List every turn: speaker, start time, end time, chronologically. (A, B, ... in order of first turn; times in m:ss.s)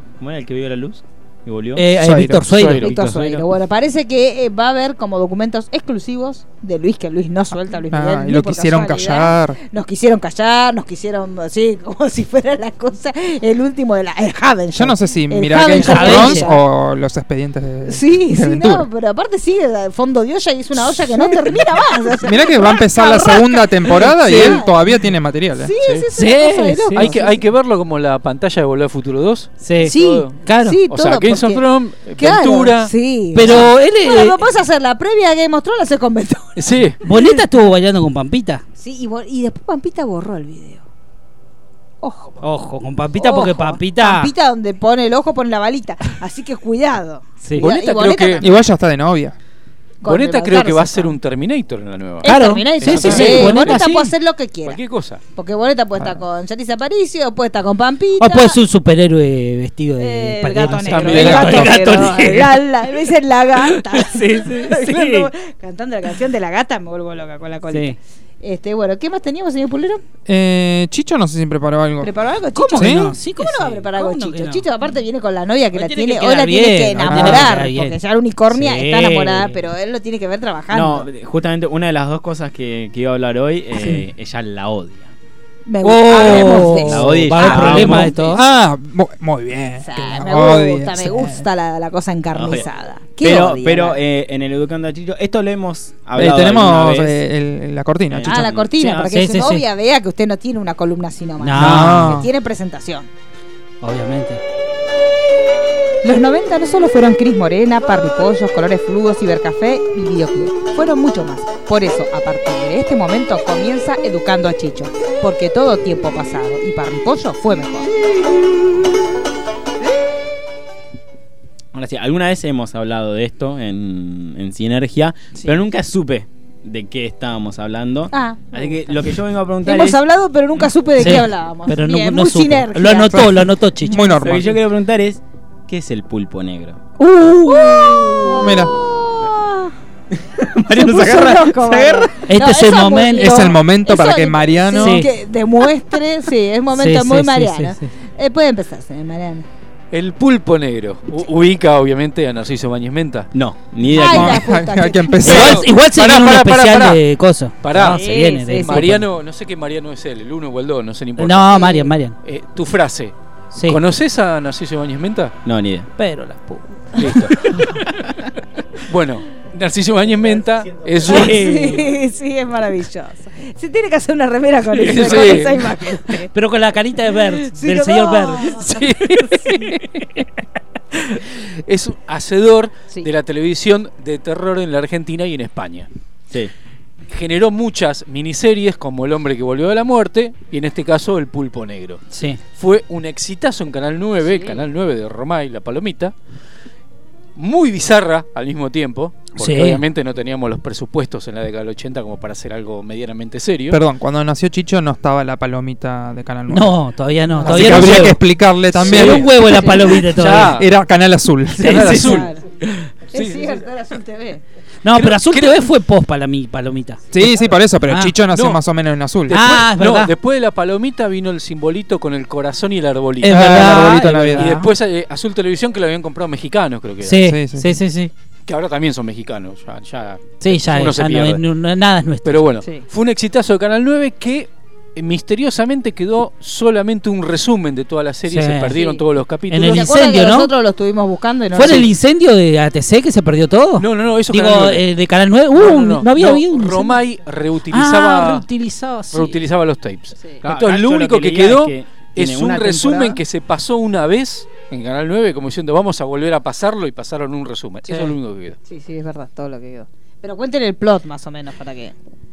0:00.2-0:01.9 A
0:01.8-0:02.9 B
0:02.0-0:02.5 C
0:02.5-0:02.9 D
0:02.7-0:03.4 A
0:02.8-0:16.6 E
0:07.9-0:09.6 C
0:14.7-0:18.9 C
0:15.7-0:16.5 B
0:17.8-0:24.8 E
0:22.2-0:25.7 C
0:24.2-0:24.6 B
0:25.6-0:27.4 E
0:25.8-0:26.1 D
0:26.1-0:27.1 B
0:26.9-0:32.9 D
0:29.6-0:30.8 B
0:29.8-0:37.4 E
0:33.3-0:34.4 B
0:36.6-0:37.0 D
0:37.0-0:38.6 B
0:38.8-0:40.8 E
0:42.0-0:42.4 E
0:42.4-0:44.3 B
0:43.2-0:48.6 E
0:47.4-0:47.7 B
0:47.6-0:48.5 D
0:48.4-0:49.4 C
0:50.0-0:51.2 E
0:50.0-0:53.9 D
0:52.2-0:58.6 E
0:52.2-0:54.1 B
0:54.6-0:55.2 D
0:58.2-1:02.7 B
1:00.0-1:10.0 E
1:00.8-1:01.6 D
1:01.0-1:02.1 C
1:03.9-1:05.3 B
1:07.7-1:08.0 B
1:10.3-1:12.1 C
1:12.0-1:21.1 E
1:12.6-1:14.7 B
1:12.8-1:13.1 C
1:15.7-1:18.0 B
1:17.1-1:17.6 C
1:18.5-1:19.6 B
1:20.7-1:25.1 A
1:23.8-1:24.0 B
1:25.7-1:28.4 E
1:25.8-1:28.4 B
1:26.1-1:28.3 A
1:28.3-1:31.4 C
1:29.8-1:34.0 E
1:32.4-1:32.6 A
1:33.2-1:37.2 A
1:36.2-1:38.5 C
1:38.1-1:39.1 A
1:38.2-1:43.1 E
1:39.1-1:39.6 B
1:41.4-1:42.3 B
1:41.6-1:42.3 C
1:43.8-1:44.4 B
1:46.0-1:57.9 E
2:01.7-2:10.0 A
2:08.1-2:09.0 E
2:09.6-2:14.4 E
2:11.0-2:14.1 B
2:13.1-2:14.6 C
2:14.2-2:16.8 A
2:17.0-2:18.3 B
2:17.0-2:19.7 E
2:18.4-2:18.8 C
2:20.2-2:22.1 A
2:20.7-2:29.5 E
2:22.3-2:23.6 B
2:23.2-2:25.1 C
2:24.8-2:25.1 B
2:26.7-2:27.9 B
2:29.9-2:33.3 D
2:33.3-2:34.5 A
2:33.9-2:35.4 E
2:34.0-2:35.7 C
2:35.2-2:37.0 D
2:35.2-2:39.1 B
2:37.6-2:41.7 D
2:37.9-2:39.0 E
2:41.2-2:42.2 B
2:41.5-2:41.9 E
2:42.2-2:43.1 D
2:43.5-2:43.8 B
2:43.7-2:45.4 D
2:45.4-2:45.9 A
2:46.0-2:47.8 B
2:47.0-2:47.5 D
2:48.8-2:51.7 D
2:51.0-2:56.3 E
2:51.1-2:51.8 B
2:51.1-2:51.6 A
2:54.8-2:55.7 D
2:55.0-2:55.4 B
2:56.3-2:58.7 B
2:57.5-2:59.7 E
2:58.6-3:00.2 D
3:01.0-3:05.9 D
3:07.1-3:12.0 D
3:12.1-3:12.4 B
3:12.6-3:16.1 D
3:17.4-3:23.8 D
3:19.4-3:19.8 B
3:23.7-3:26.8 C
3:26.5-3:28.2 B
3:27.4-3:32.2 C
3:27.4-3:27.7 E
3:28.7-3:30.6 B
3:28.8-3:30.7 D
3:29.5-3:29.9 E
3:31.6-3:32.2 B
3:31.6-3:32.3 D
3:31.9-3:32.4 E
3:33.1-3:34.4 E
3:33.1-3:33.6 D
3:34.8-3:37.2 B
3:34.9-3:35.7 D
3:37.1-3:39.4 C
3:37.9-3:38.1 B
3:38.3-3:38.6 D
3:39.3-3:47.2 D
3:39.3-3:40.1 B
3:43.2-3:44.7 B
3:43.2-3:44.6 C
3:47.0-3:48.1 B
3:47.2-3:47.8 C
3:48.5-3:51.4 D
3:50.4-3:52.4 B
3:52.2-4:00.0 D
3:58.3-3:58.8 B
3:58.7-3:59.0 E
3:59.5-4:00.5 B
3:59.6-4:01.9 E
4:01.6-4:07.0 B
4:03.8-4:04.8 D
4:05.5-4:08.5 D
4:07.7-4:09.4 B
4:09.1-4:18.6 D
4:10.4-4:13.2 A
4:18.6-4:22.0 E